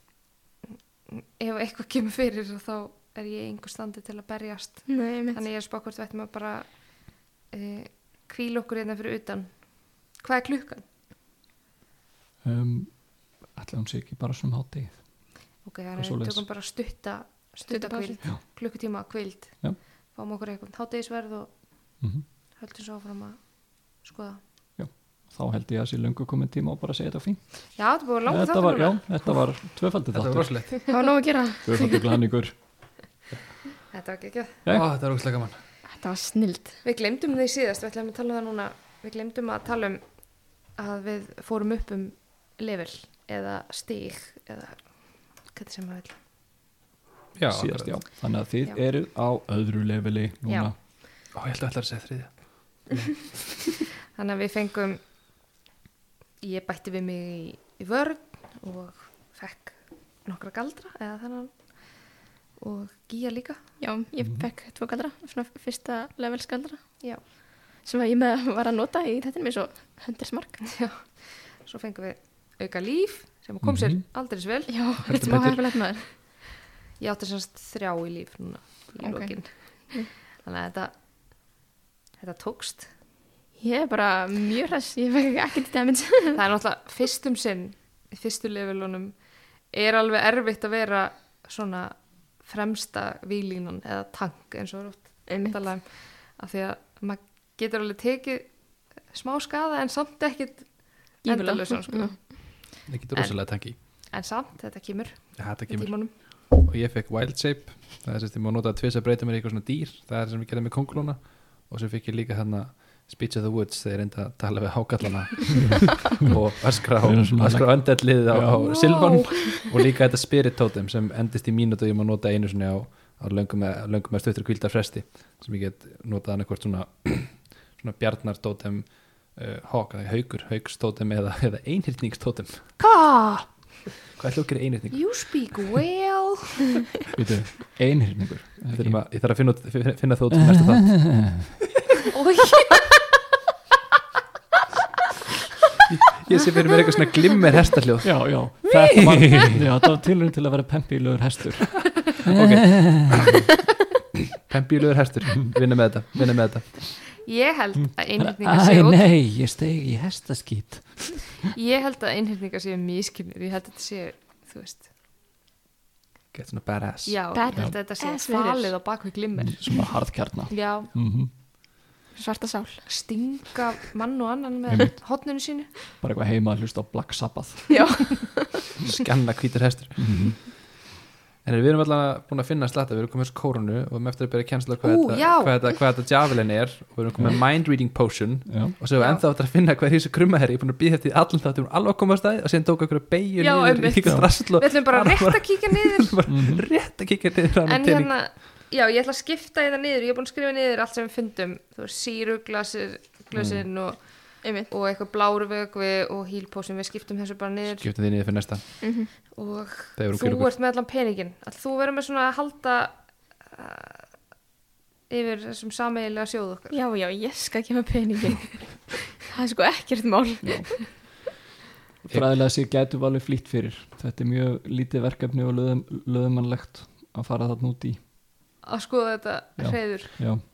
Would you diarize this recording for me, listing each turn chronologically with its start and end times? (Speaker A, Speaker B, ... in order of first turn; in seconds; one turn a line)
Speaker A: 1.1-10.8
Speaker B: 4.9-5.4
Speaker C: 12.4-15.4
Speaker A: 15.6-24.4
Speaker C: 15.9-16.5
Speaker B: 17.7-18.2
Speaker C: 22.0-22.2
Speaker C: 24.8-30.6
Speaker A: 27.8-29.0
Speaker D: 30.1-30.8
Speaker B: 30.9-32.2
Speaker C: 31.6-32.5
Speaker A: 33.9-34.6
Speaker D: 34.7-35.6
Speaker B: 35.9-36.8
Speaker A: 36.8-46.2
Speaker D: 47.4-48.1
Speaker C: 47.5-50.8
Speaker A: 50.5-50.7
Speaker D: 51.3-53.7
Speaker A: 54.1-55.0
Speaker A: 56.4-63.7
Speaker B: 63.8-70.7
Speaker C: 64.2-64.5
Speaker A: 70.7-76.3
Speaker C: 73.6-74.0
Speaker B: 74.7-76.0
Speaker D: 75.0-75.8
Speaker A: 77.0-81.5
Speaker B: 79.0-80.1
Speaker A: 82.2-82.9
Speaker B: 83.6-86.4
Speaker A: 86.3-106.1
Speaker B: 95.3-95.6
Speaker B: 101.2-102.4
Speaker D: 102.9-103.8
Speaker D: 105.4-132.8
Speaker C: 115.6-116.4
Speaker C: 117.0-119.0
Speaker A: 118.5-119.7
Speaker A: 132.8-133.6
Speaker D: 134.1-135.6
Speaker A: 134.9-136.8
Speaker C: 137.2-139.0
Speaker D: 138.7-141.5
Speaker C: 140.4-141.5
Speaker A: 142.1-142.9
Speaker D: 145.9-149.7
Speaker C: 148.0-153.3
Speaker D: 152.2-153.5
Speaker D: 154.4-157.0
Speaker A: 157.2-159.1
Speaker C: 158.1-161.5
Speaker A: 161.5-164.9
Speaker D: 166.3-167.2
Speaker A: 167.1-170.9
Speaker B: 167.3-168.7
Speaker C: 169.4-171.3
Speaker B: 172.2-172.9
Speaker A: 172.9-175.7
Speaker C: 174.7-175.0
Speaker C: 176.0-178.1
Speaker B: 177.7-178.6
Speaker D: 178.9-180.6
Speaker C: 180.0-180.4
Speaker D: 181.4-198.2
Speaker A: 184.8-185.9
Speaker C: 187.2-187.4
Speaker C: 188.5-188.8
Speaker A: 189.0-189.2
Speaker A: 193.4-196.2
Speaker C: 196.3-196.7
Speaker A: 197.7-207.9
Speaker D: 203.3-203.7
Speaker B: 204.4-204.7
Speaker D: 207.7-209.3
Speaker B: 208.8-209.1
Speaker A: 209.3-214.2
Speaker D: 210.0-210.5
Speaker A: 215.1-216.8
Speaker B: 216.7-221.1
Speaker C: 220.4-220.9
Speaker C: 222.1-228.0
Speaker A: 228.6-230.1
Speaker C: 229.6-230.4